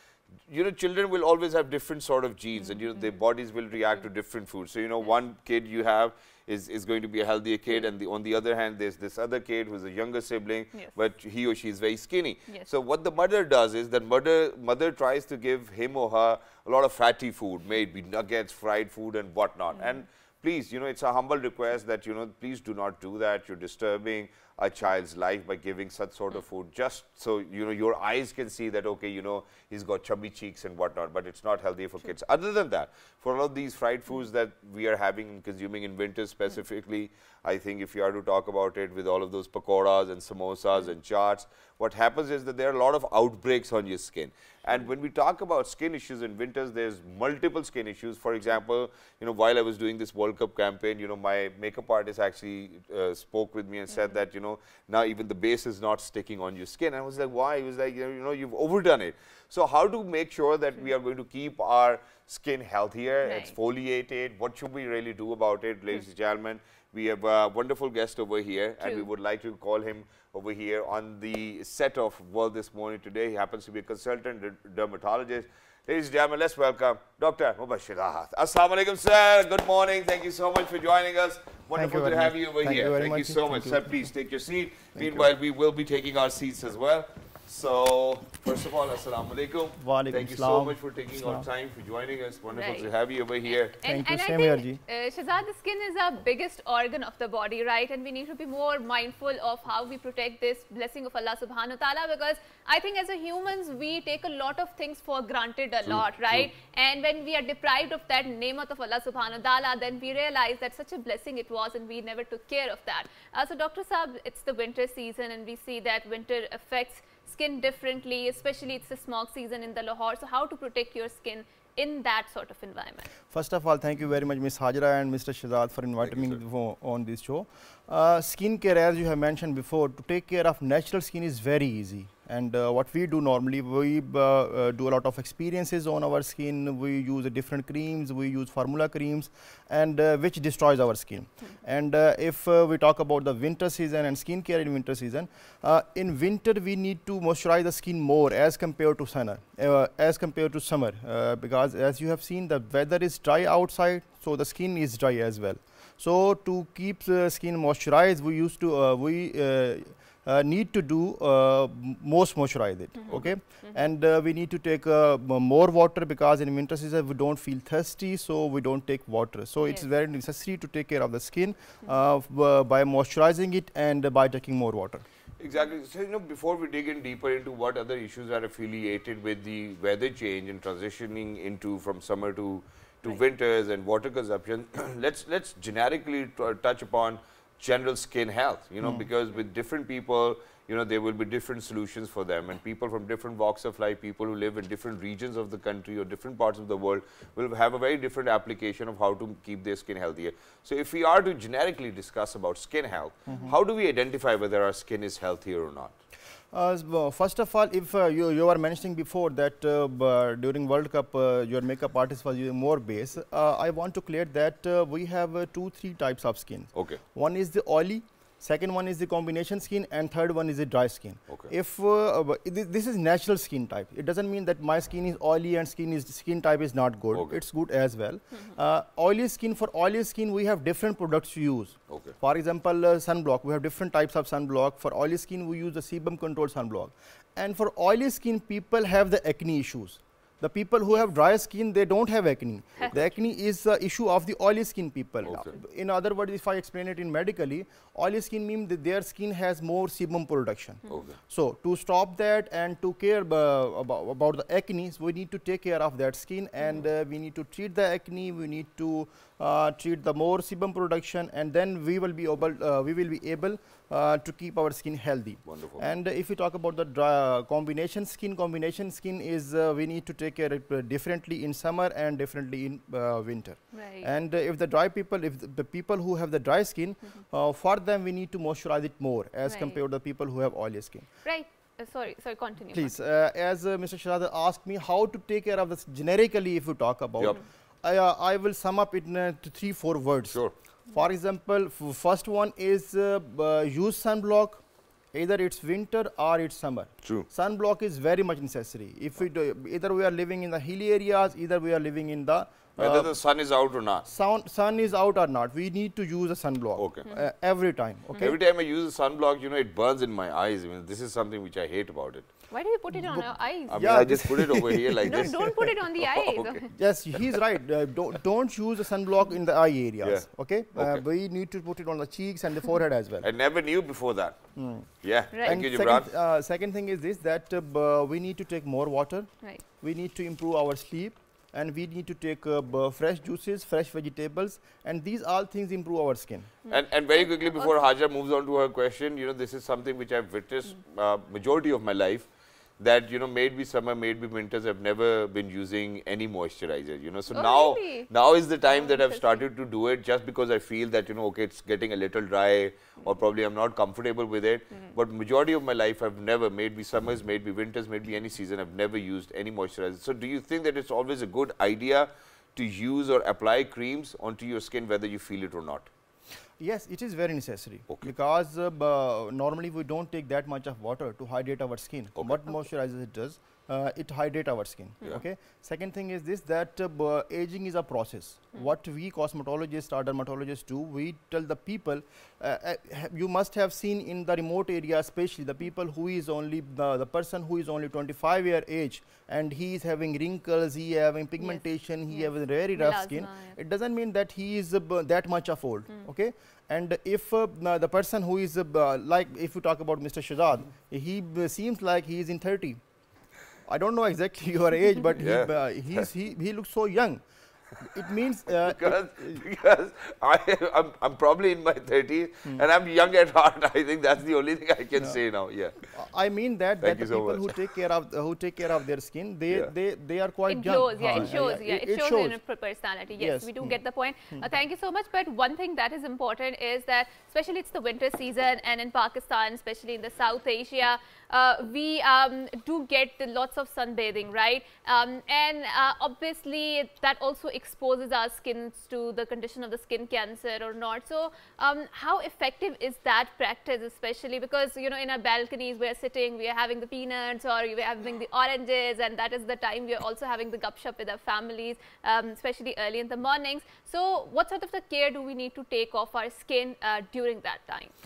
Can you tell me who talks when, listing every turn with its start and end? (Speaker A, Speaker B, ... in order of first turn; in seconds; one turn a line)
Speaker A: 0.5-93.8
Speaker B: 63.2-63.5
Speaker B: 68.8-69.1
Speaker C: 81.7-83.9
Speaker C: 85.0-85.2
Speaker C: 89.8-91.5
Speaker B: 92.5-92.9
Speaker B: 93.5-123.1
Speaker C: 93.8-94.8
Speaker A: 105.9-106.5
Speaker C: 123.3-175.0
Speaker B: 163.0-163.8
Speaker A: 175.4-205.9
Speaker C: 188.8-189.1
Speaker C: 206.5-281.1
Speaker A: 216.8-217.0
Speaker A: 227.1-227.4
Speaker A: 231.9-232.2
Speaker A: 250.9-251.2
Speaker A: 265.4-265.8
Speaker B: 273.7-274.1
Speaker B: 279.4-279.8
Speaker B: 281.2-282.9
Speaker C: 282.7-303.1
Speaker A: 297.0-297.3
Speaker A: 302.8-304.1
Speaker C: 304.1-308.4
Speaker A: 306.8-307.1
Speaker A: 308.2-312.3
Speaker B: 312.5-314.1
Speaker C: 312.9-315.7
Speaker A: 313.7-316.6
Speaker B: 315.0-316.7
Speaker C: 316.7-323.3
Speaker A: 320.0-321.0
Speaker A: 323.2-326.1
Speaker C: 324.6-336.5
Speaker B: 325.3-325.6
Speaker B: 336.7-337.8
Speaker A: 336.7-342.3
Speaker A: 342.8-365.9
Speaker B: 347.3-348.1
Speaker B: 348.7-349.4
Speaker C: 366.6-402.8
Speaker B: 391.4-393.6
Speaker C: 403.7-407.2
Speaker A: 405.2-406.0
Speaker C: 407.8-409.4
Speaker A: 408.5-415.9
Speaker C: 415.9-422.4
Speaker A: 416.8-417.7
Speaker B: 420.5-457.9
Speaker C: 423.2-423.8